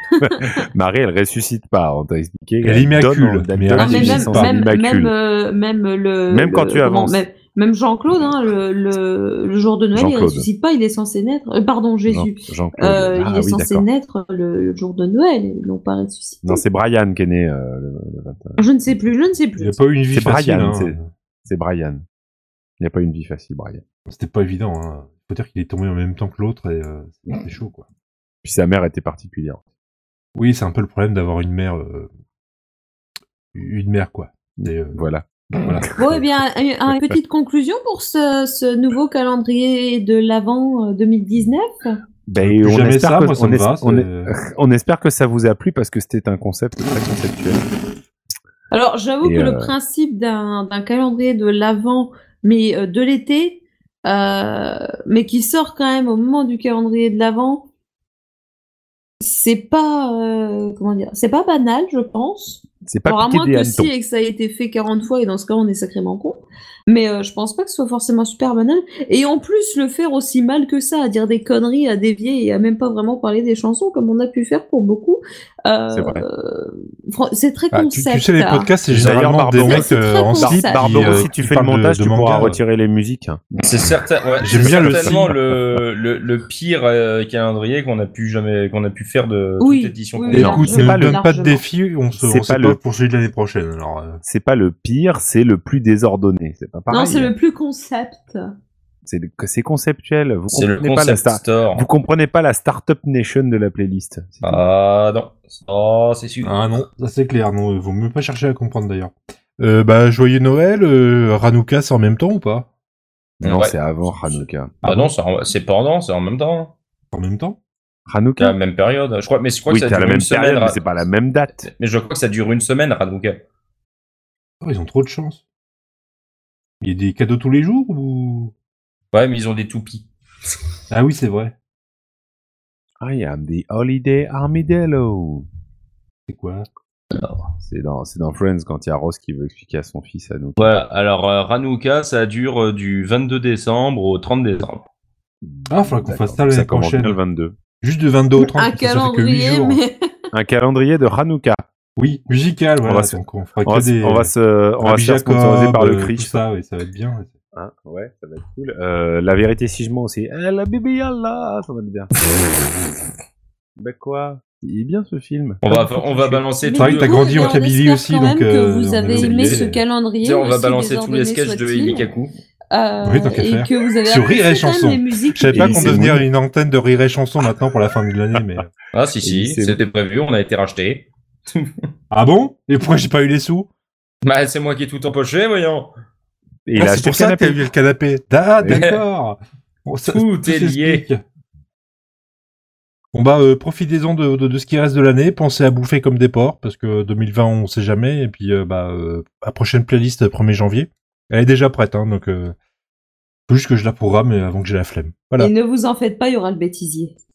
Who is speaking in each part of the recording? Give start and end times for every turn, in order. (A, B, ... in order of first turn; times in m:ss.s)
0:00.2-0:05.1 A
0:02.6-0:04.5 B
0:03.8-0:16.6 C
0:06.3-0:07.2 A
0:09.9-0:10.5 A
0:12.1-0:13.9 A
0:16.4-0:18.6 A
0:18.6-0:19.8 C
0:19.6-0:21.1 B
0:20.1-0:22.0 A
0:22.8-0:23.8 A
0:24.1-0:27.8 B
0:28.4-0:29.6 A
0:30.4-0:32.1 B
0:33.5-0:35.0 B
0:34.6-0:36.2 A
0:35.6-0:35.9 B
0:36.0-0:42.0 C
0:42.3-0:47.6 A
0:42.4-0:44.3 B
0:48.7-0:57.6 C
0:49.2-0:49.7 A
0:59.2-1:18.7 C
1:02.8-1:03.9 A
1:15.9-1:16.2 A
1:17.9-1:22.6 B
1:18.9-1:23.6 A
1:19.6-1:21.3 C
1:23.6-1:30.8 D
1:24.4-1:25.4 B
1:24.5-1:25.3 A
1:29.6-1:31.6 C
1:30.3-1:34.2 B
1:30.4-1:31.2 A
1:32.1-1:32.8 A
1:34.2-1:37.3 A
1:36.9-1:38.4 C
1:39.0-1:44.6 A
1:40.5-1:41.9 D
1:44.4-1:46.5 D
1:46.4-1:52.7 B
1:53.4-1:54.8 A
1:53.4-1:53.8 D
1:54.8-1:55.1 B
1:54.8-1:56.7 D
1:57.1-1:57.6 B
1:58.1-1:58.6 A
1:58.4-2:00.8 D
1:59.7-2:01.7 A
2:01.6-2:03.4 D
2:04.6-2:05.4 B
2:06.8-2:08.5 B
2:09.1-2:10.1 D
2:10.9-2:11.5 B
2:13.0-2:15.4 A
2:16.3-2:16.7 B
2:17.1-2:17.5 D
2:17.6-2:20.7 A
2:20.6-2:24.8 D
2:25.4-2:27.5 A
2:25.7-2:27.2 B
2:27.8-2:29.8 B
2:28.4-2:29.9 C
2:30.3-2:31.6 A
2:32.0-2:37.3 B
2:32.8-2:36.4 A
2:37.5-2:42.1 A
2:43.8-2:46.3 A
2:45.6-2:47.6 D
2:46.6-2:52.1 C
2:46.8-2:49.8 B
2:49.2-2:49.7 D
2:50.2-2:52.3 D
2:52.7-2:56.0 C
2:53.0-2:58.7 B
2:55.5-2:56.2 A
2:58.9-3:01.7 D
2:59.2-2:59.8 A
3:02.1-3:03.7 B
3:04.2-3:05.9 D
3:06.6-3:07.6 A
3:06.8-3:11.2 B
3:08.6-3:08.8 A
3:08.7-3:09.0 D
3:10.0-3:11.1 D
3:13.1-3:22.5 B
3:23.5-3:25.5 B
3:25.4-3:27.1 C